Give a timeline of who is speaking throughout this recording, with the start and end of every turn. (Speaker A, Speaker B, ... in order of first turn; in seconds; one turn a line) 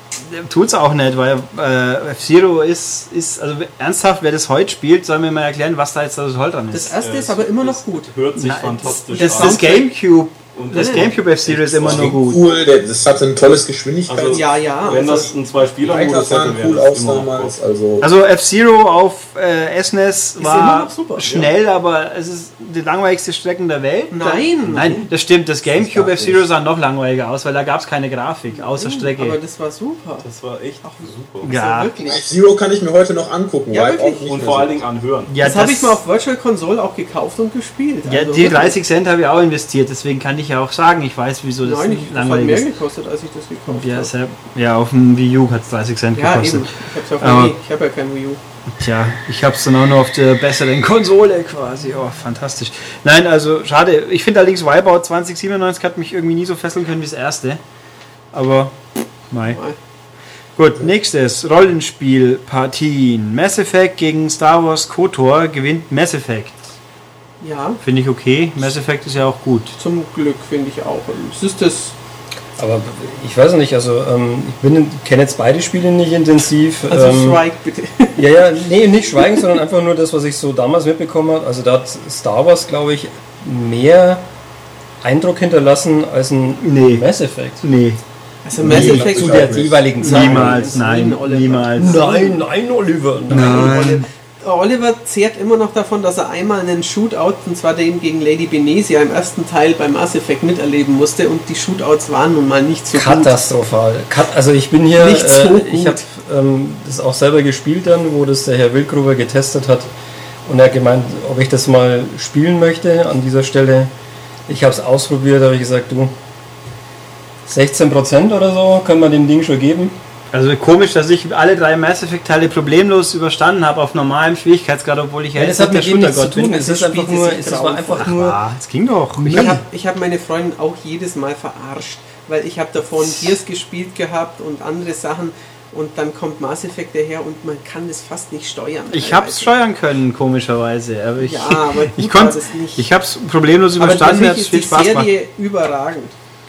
Speaker A: 0.2-7.0
Speaker B: 6.7-8.1
Speaker C: 7.0-9.8
Speaker A: 8.4-12.4
Speaker B: 8.8-9.9
Speaker C: 10.5-12.2
Speaker B: 10.7-11.2
Speaker D: 11.8-14.6
Speaker C: 14.1-17.6
Speaker B: 14.3-15.3
Speaker D: 15.8-18.1
Speaker A: 18.0-29.4
Speaker B: 20.4-21.3
Speaker C: 21.2-21.5
Speaker B: 24.1-25.1
Speaker C: 24.6-25.1
Speaker D: 25.7-26.5
Speaker B: 28.5-30.3
Speaker C: 30.2-31.5
Speaker B: 30.8-32.2
Speaker A: 31.4-31.9
Speaker D: 32.0-34.9
Speaker B: 33.7-34.6
Speaker C: 34.3-35.3
Speaker A: 35.3-36.0
Speaker B: 35.4-38.8
Speaker A: 38.1-42.7
Speaker B: 41.6-44.1
Speaker A: 43.7-47.5
Speaker B: 46.1-48.4
Speaker A: 48.8-57.6
Speaker A: 58.3-58.8
Speaker A: 59.3-59.6
Speaker A: 60.6-66.7
Speaker B: 67.4-67.8
Speaker A: 67.8-69.8
Speaker B: 69.8-72.0
Speaker E: 72.6-77.4
Speaker B: 76.9-78.2
Speaker E: 78.2-84.2
Speaker E: 85.0-87.6
Speaker A: 86.6-87.1
Speaker A: 87.6-88.0
Speaker B: 88.5-92.4
Speaker D: 88.6-90.3
Speaker E: 88.7-90.8
Speaker A: 90.0-92.0
Speaker E: 91.8-93.8
Speaker B: 93.3-103.3
Speaker A: 93.3-94.1
Speaker E: 102.9-109.9
Speaker B: 105.0-106.0
Speaker E: 110.5-113.9
Speaker E: 114.5-116.1
Speaker E: 117.5-120.0
Speaker A: 120.3-126.6
Speaker E: 125.4-128.4
Speaker B: 126.6-128.1
Speaker A: 128.0-129.6
Speaker E: 129.2-129.6
Speaker B: 129.3-139.5
Speaker A: 138.9-145.1
Speaker B: 141.2-142.9
Speaker B: 143.8-146.2